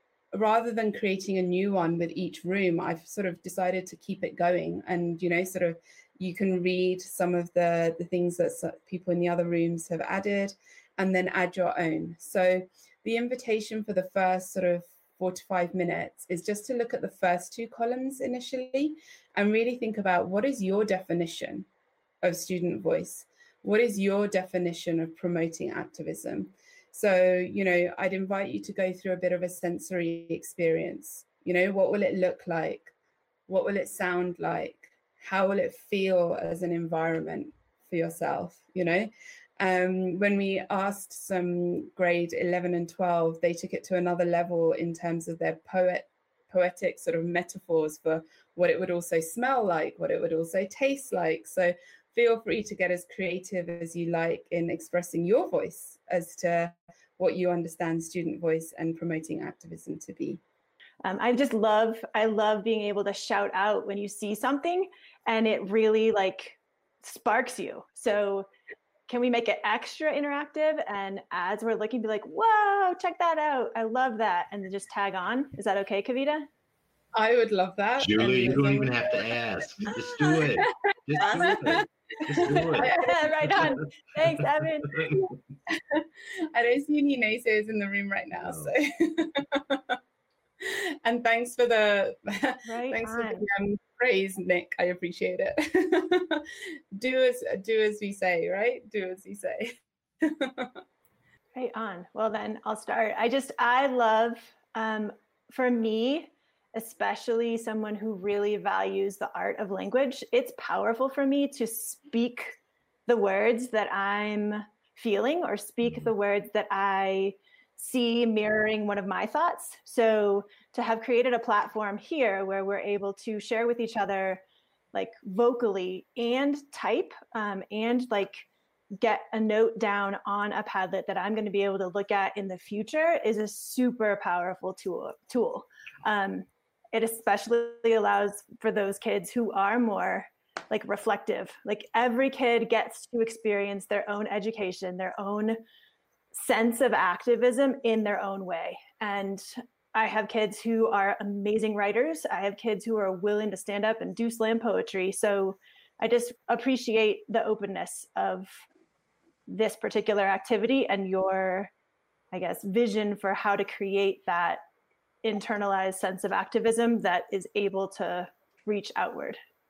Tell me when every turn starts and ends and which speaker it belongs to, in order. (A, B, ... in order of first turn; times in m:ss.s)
0:00.3-0:21.7 A
0:22.2-0:32.9 A
0:33.5-1:00.4 A
1:01.0-1:08.5 B
1:09.1-1:16.5 B
1:17.2-1:19.2 A
1:18.0-1:25.3 C
1:19.8-1:23.3 A
1:22.8-1:25.0 B
1:25.1-1:30.0 A
1:28.4-1:28.7 C
1:30.6-1:40.8 A
1:32.7-1:33.5 B
1:41.5-2:04.4 B
1:55.8-1:56.1 C
2:04.9-2:08.5 B
2:09.0-2:25.6 B
2:26.3-2:38.7 B
2:39.5-2:41.7 B
2:42.3-2:44.6 B
2:45.2-2:49.4 B